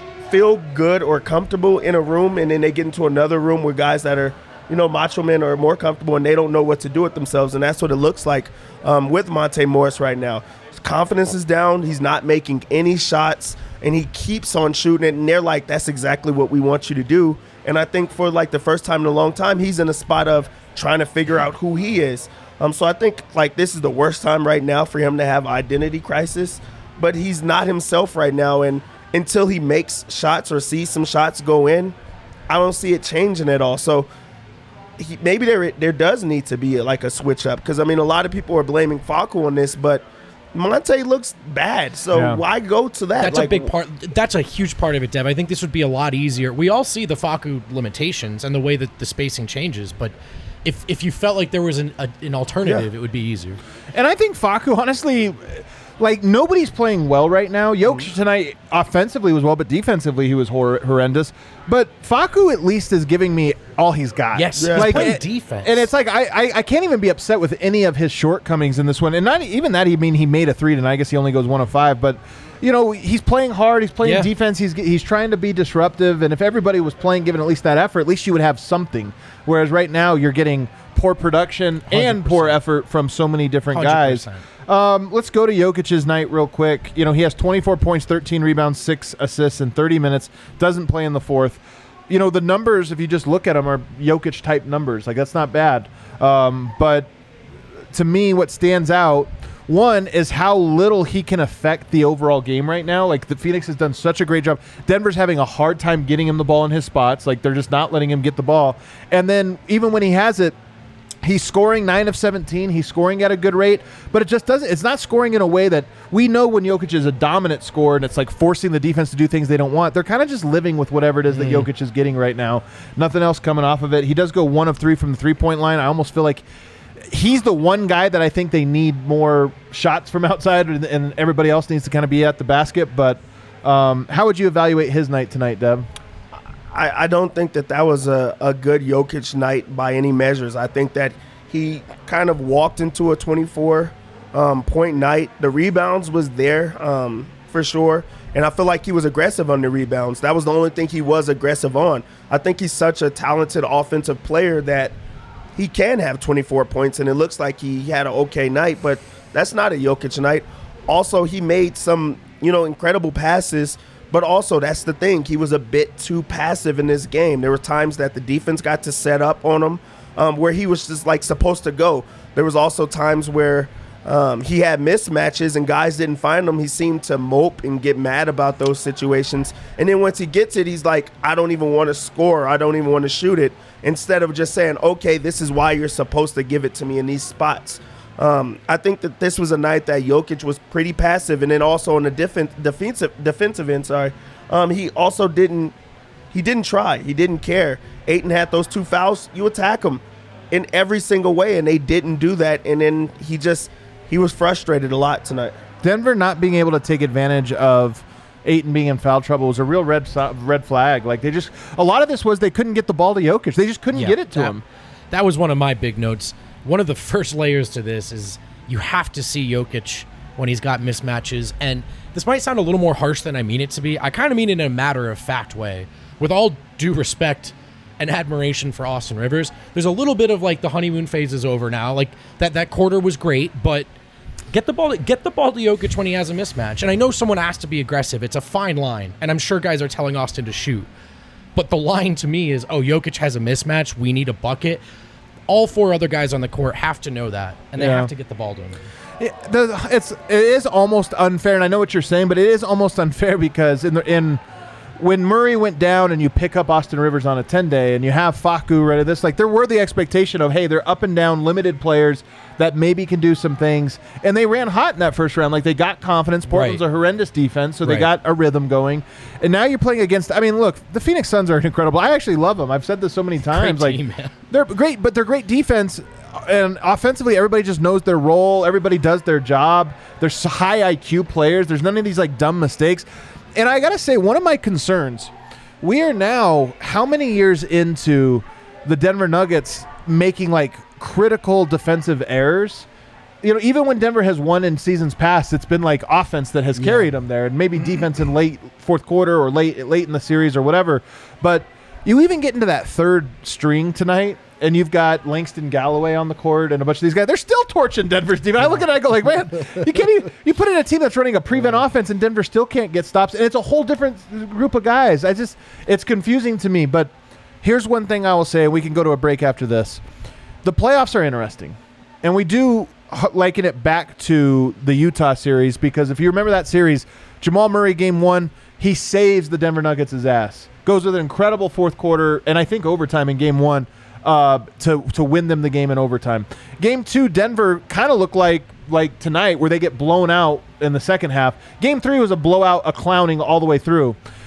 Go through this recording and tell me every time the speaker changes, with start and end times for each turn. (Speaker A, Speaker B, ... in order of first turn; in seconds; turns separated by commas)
Speaker A: 0.3-31.9, Speaker A: 32.5-34.1, Speaker A: 35.0-43.7, Speaker B: 42.1-42.4, Speaker C: 43.2-53.6, Speaker B: 53.9-97.1, Speaker C: 64.3-65.8, Speaker A: 64.6-65.2, Speaker C: 74.0-74.3, Speaker C: 81.9-82.6, Speaker C: 83.7-84.4, Speaker B: 97.9-110.5, Speaker B: 111.2-126.4, Speaker C: 121.3-121.7, Speaker B: 127.1-135.9, Speaker A: 136.7-154.9, Speaker A: 155.6-195.7, Speaker A: 196.3-205.6, Speaker B: 205.8-214.6, Speaker C: 213.9-214.5, Speaker C: 215.1-233.9, Speaker C: 234.5-240.9, Speaker C: 241.6-244.8, Speaker C: 245.5-248.8, Speaker B: 247.8-248.1, Speaker B: 249.2-254.4, Speaker B: 255.0-292.9, Speaker C: 266.5-266.8, Speaker C: 267.8-268.1, Speaker C: 273.5-274.3, Speaker B: 293.4-320.0, Speaker C: 296.8-297.1, Speaker B: 320.6-344.2